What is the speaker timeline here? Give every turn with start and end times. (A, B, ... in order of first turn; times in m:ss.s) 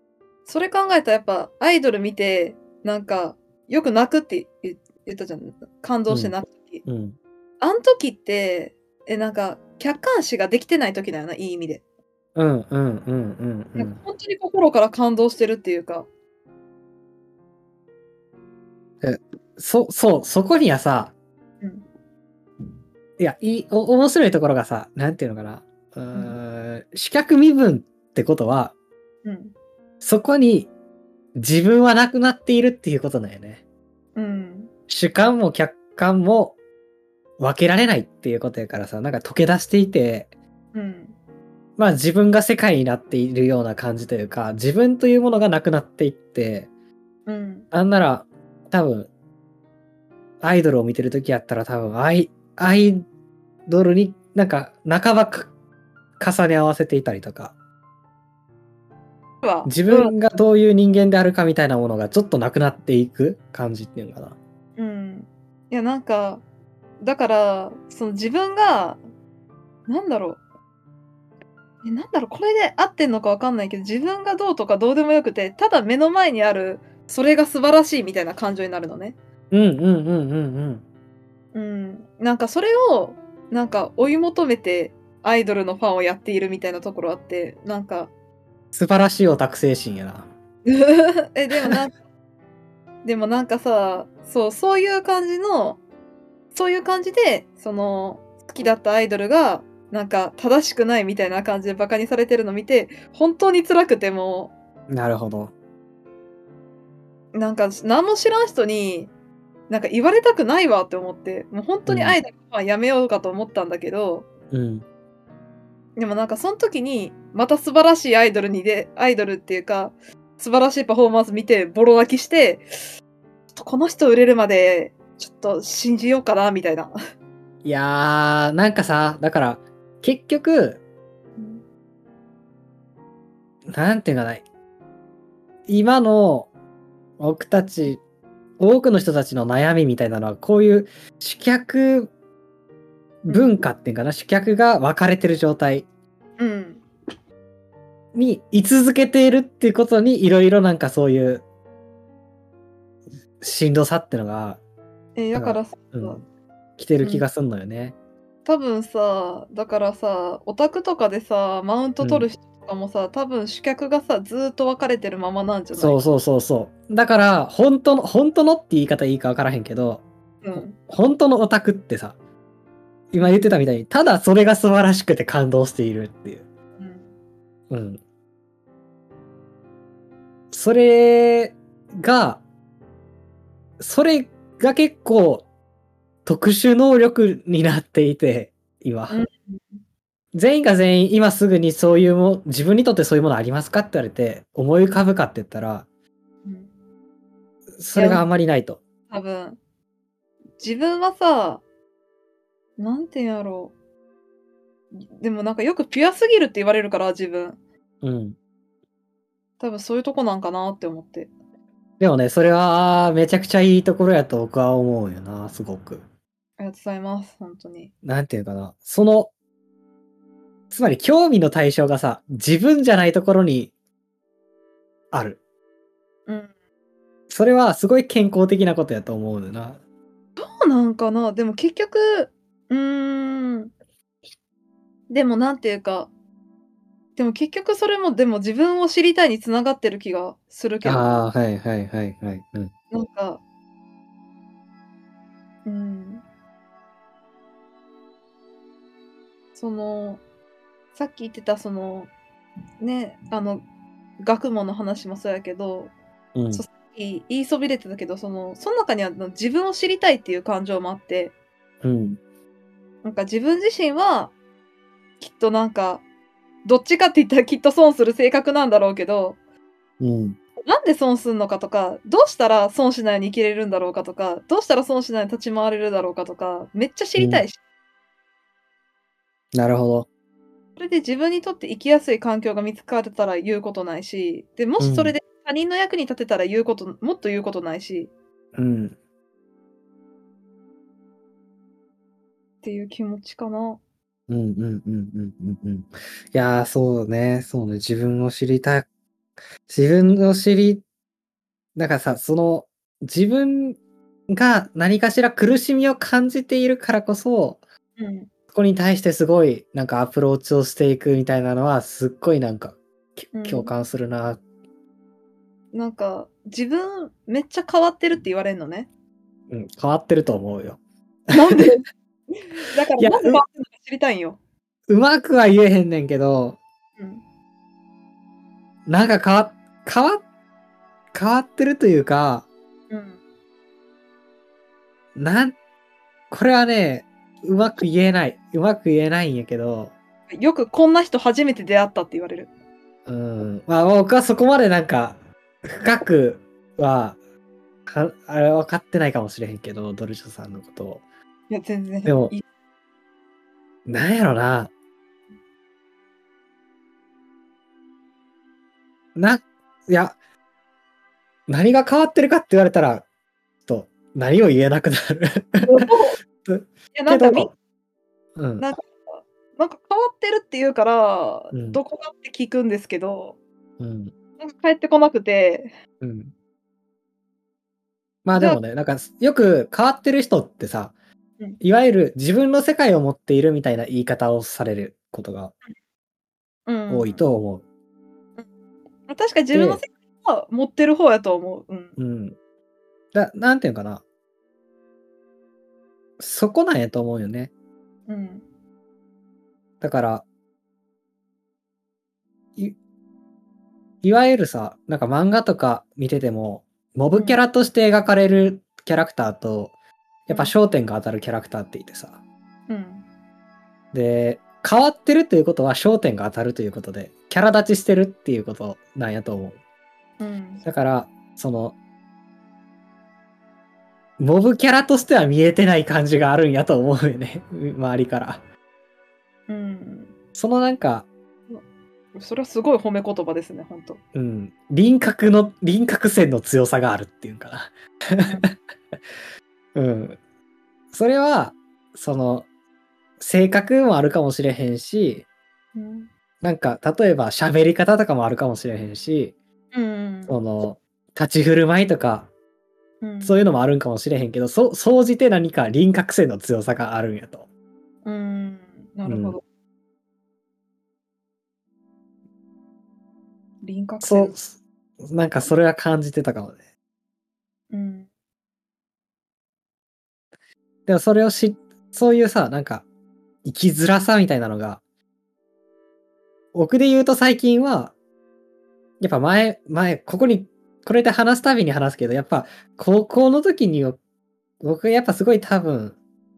0:00.5-0:06.8 A
0:06.1-0:07.2 B
0:07.6-0:11.8 A
0:12.4-0:14.0 B
0:13.8-0:16.1 A
0:19.0-0:21.1 B
0:23.2-0:28.7 B
0:29.2-0:29.5 A
0:30.0-0:30.7 B
0:31.4-0:33.6 B
0:34.1-0:34.7 A
0:34.9-0:36.6 B
0:37.4-0:40.3 B
0:40.7-0:41.1 A
0:41.8-0:46.7 B
0:47.2-0:47.7 A
0:47.7-0:49.1 B
0:50.4-0:53.0 B
0:53.7-0:55.5 B
0:56.2-0:57.5 B
0:59.4-1:00.1 A
0:59.6-1:04.4 B
1:04.8-1:06.4 A
1:07.0-1:09.0 A
1:09.9-1:10.4 A
1:11.8-1:19.2 A
1:19.5-1:20.8 B
1:21.5-1:28.1 A
1:28.7-1:30.3 B
1:30.6-1:32.0 A
1:33.0-1:35.8 A
1:36.5-1:44.5 A
1:44.9-1:45.5 B
1:47.3-1:49.1 A
1:49.7-1:54.2 A
1:51.9-1:52.2 B
1:54.5-1:54.8 B
1:56.0-2:02.9 A
2:03.5-2:06.9 A
2:07.6-2:10.8 B
2:11.4-2:11.6 A
2:13.7-2:14.4 B
2:15.7-2:16.5 B
2:17.2-2:18.0 B
2:18.6-2:22.1 B
2:23.2-2:25.9 B
2:23.3-2:23.5 A
2:26.4-2:26.8 A
2:28.1-2:31.4 B
2:33.4-2:34.6 B
2:35.2-2:36.2 A
2:35.4-2:36.2 B
2:36.8-2:38.0 B
2:38.5-2:46.0 A
2:42.0-2:42.3 B
2:45.8-2:50.0 B
2:50.4-2:50.8 A
2:50.6-2:52.2 B
2:53.1-2:56.4 B
2:56.8-2:57.1 A
2:57.7-2:58.0 B
3:00.5-3:02.4 B
3:03.8-3:05.5 B
3:06.2-3:09.2 B
3:09.1-3:09.8 A
3:10.3-3:15.9 B
3:16.4-3:16.7 A
3:17.8-3:18.8 B
3:18.0-3:18.2 A
3:19.1-3:19.6 A
3:20.6-3:21.6 A
3:22.8-3:23.7 A
3:24.9-3:27.6 A
3:28.0-3:28.4 B
3:29.6-3:31.3 A
3:32.0-3:36.0 B
3:36.6-3:37.9 A
3:38.0-3:39.3 B
3:40.7-3:43.7 B
3:45.1-3:45.4 B
3:47.3-3:49.8 B
3:50.4-3:53.7 A
3:55.1-3:56.1 A
3:57.2-4:01.1 A
4:00.8-4:02.7 B
4:02.9-4:03.4 A
4:05.6-4:06.2 A
4:09.6-4:10.2 A
4:11.0-4:12.1 A
4:12.8-4:13.6 A
4:14.2-4:15.9 A
4:16.3-4:16.6 B
4:16.5-4:21.3 A
4:21.8-4:22.2 B
4:23.0-4:24.3 A
4:25.2-4:26.0 A
4:26.6-4:29.4 A
4:30.0-4:30.4 B
4:30.6-4:37.6 A
4:37.2-4:37.4 B
4:39.5-4:40.1 B
4:40.8-4:48.1 A
4:44.8-4:45.2 B
4:48.5-4:49.0 B
4:52.6-4:53.8 A
4:54.3-4:58.9 B
4:59.7-5:00.8 B
5:01.8-5:03.8 B
5:04.3-5:07.6 B
5:08.0-5:08.3 A
5:08.5-5:14.4 B
5:13.3-5:13.7 A
5:15.7-5:18.9 A
5:19.5-5:20.8 B
5:21.3-5:24.4 A
5:21.3-5:21.7 B
5:23.0-5:23.4 B
5:24.9-5:26.6 B
5:27.0-5:27.2 A
5:28.8-5:30.2 B
5:31.1-5:32.5 B
5:32.9-5:33.2 A
5:35.2-5:35.6 B
5:36.3-5:39.9 B
5:40.3-5:42.5 A
5:43.0-5:47.2 B
5:47.8-5:51.0 B
5:51.5-5:52.4 A
5:52.0-5:52.3 B
5:53.8-5:54.7 B
5:59.2-6:00.2 B
6:01.5-6:03.0 B
6:03.6-6:05.9 B
6:05.6-6:06.2 A
6:06.4-6:07.5 B
6:06.9-6:07.5 A
6:08.4-6:08.6 B
6:08.6-6:13.4 A
6:11.5-6:11.8 B
6:13.8-6:14.1 B
6:14.4-6:15.7 A
6:16.0-6:16.3 B
6:18.2-6:20.9 B
6:18.3-6:18.6 A
6:21.6-6:25.5 B
6:26.7-6:27.2 A
6:26.9-6:27.6 B
6:29.1-6:32.0 A
6:29.5-6:29.8 B
6:32.0-6:32.4 B
6:33.1-6:34.0 B
6:36.2-6:37.5 B
6:38.1-6:38.4 A
6:39.8-6:40.2 B
6:44.0-6:49.7 B
6:47.1-6:47.4 A
6:50.3-6:52.2 B
6:52.7-6:53.0 A
6:53.9-6:59.6 B
7:00.2-7:00.6 A
7:00.6-7:01.8 B
7:04.2-7:08.4 B
7:09.5-7:10.1 A
7:10.3-7:11.1 B
7:12.2-7:14.0 A
7:14.2-7:18.5 B
7:19.8-7:20.2 B
7:20.9-7:22.5 B
7:23.2-7:25.2 B
7:25.8-7:26.1 A
7:26.4-7:29.3 B
7:29.7-7:30.4 A
7:30.3-7:32.3 B
7:33.0-7:33.4 A
7:33.2-7:37.4 B
7:38.0-7:39.4 A
7:39.0-7:39.4 B
7:43.6-7:44.3 A
7:44.0-7:46.6 B
7:47.7-7:48.1 A
7:50.8-7:52.8 B
7:53.4-7:54.8 B
7:56.5-7:57.9 B
7:59.0-8:04.0 B
8:04.6-8:06.0 B